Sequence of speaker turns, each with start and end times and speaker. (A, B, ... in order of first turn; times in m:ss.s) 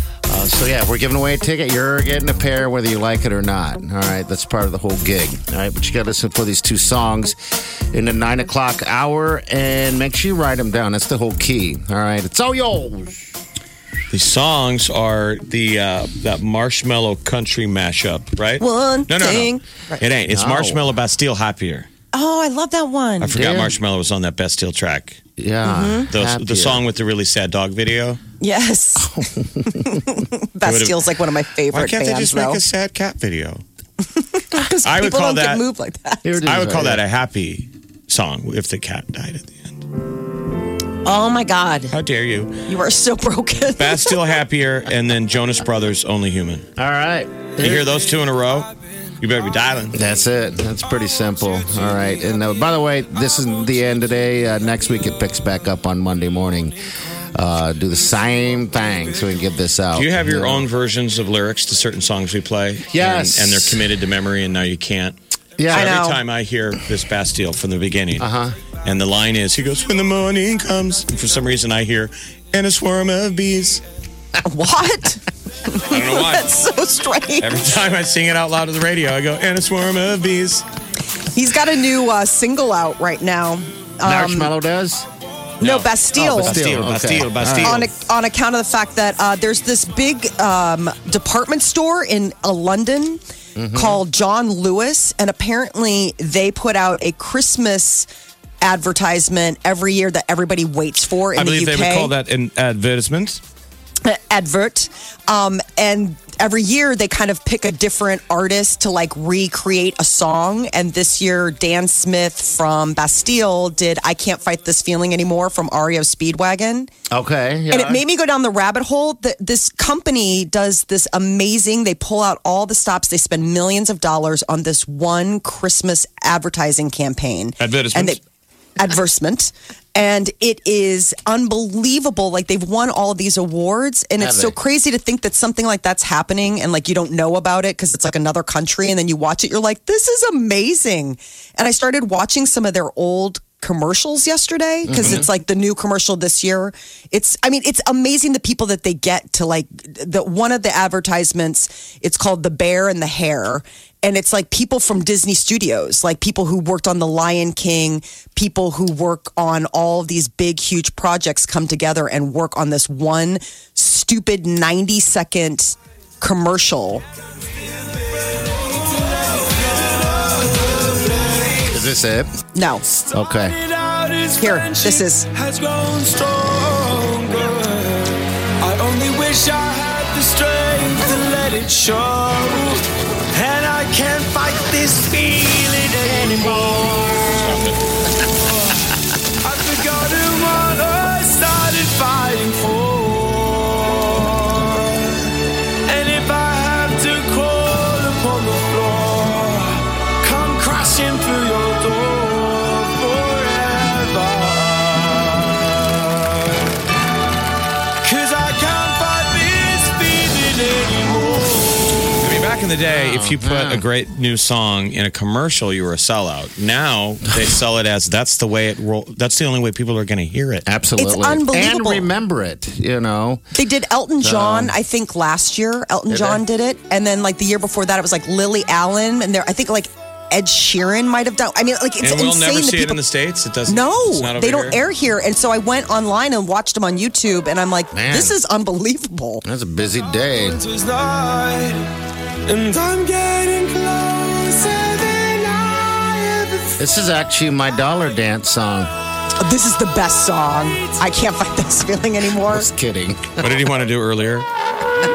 0:00.3-0:07.4 A
0:07.9-0:13.2 A
0:14.1-0:21.9 B
0:18.6-0:20.0 C
0:20.3-0:20.9 A
0:22.1-0:23.3 C
0:23.2-0:25.2 B
0:23.3-0:23.7 A
0:25.4-0:26.8 A
0:25.6-0:26.1 C
0:26.1-0:28.2 B
0:28.4-0:29.2 C
0:29.0-0:30.0 A
0:29.8-0:32.6 C
0:30.6-0:31.0 B
0:31.7-0:33.6 B
0:34.2-0:36.4 C
0:34.8-0:35.6 B
0:36.2-0:37.0 A
0:36.4-0:39.9 B
0:41.0-0:42.0 C
0:41.9-0:42.6 B
0:42.7-0:44.3 C
0:43.8-0:46.6 B
0:46.8-0:47.9 A
0:47.6-0:50.0 B
0:49.9-1:00.7 A
1:00.0-1:05.2 B
1:02.9-1:03.8 A
1:05.6-1:05.9 A
1:05.7-1:08.3 B
1:05.7-1:06.2 C
1:08.2-1:08.6 A
1:08.8-1:13.8 B
1:14.4-1:17.5 C
1:15.9-1:16.5 B
1:17.4-1:20.6 B
1:21.3-1:24.6 C
1:24.0-1:25.1 A
1:25.6-1:26.6 C
1:25.6-1:27.9 B
1:26.2-1:27.9 A
1:27.6-1:33.2 C
1:33.6-1:34.0 A
1:33.7-1:38.1 C
1:38.6-1:42.1 C
1:41.4-1:43.4 B
1:44.0-1:56.9 C
1:57.1-1:58.0 A
1:57.7-2:08.2 C
2:07.6-2:08.2 B
2:08.8-2:47.0 C
2:14.2-2:14.6 A
2:24.8-2:25.2 A
2:48.6-2:51.6 D
2:51.7-2:52.3 A
2:52.5-2:52.8 C
2:53.1-2:53.6 A
2:53.7-3:02.8 D
2:54.4-2:55.3 C
3:03.3-3:07.2 D
3:07.2-3:07.8 B
3:09.4-3:15.2 D
3:15.9-3:26.1 D
3:28.0-3:31.8 D
3:32.2-3:40.7 B
3:33.0-3:33.8 A
3:40.7-3:43.4 A
3:41.0-3:42.1 C
3:43.6-3:53.0 C
3:44.2-3:44.8 A
3:46.1-3:46.4 A
3:52.0-3:54.8 B
3:53.7-3:59.4 C
3:57.9-3:58.4 A
3:59.4-4:00.6 A
4:00.7-4:01.7 D
4:02.5-4:06.8 D
4:06.8-4:08.9 A
4:09.4-4:12.7 C
4:12.4-4:13.5 A
4:13.4-4:14.5 B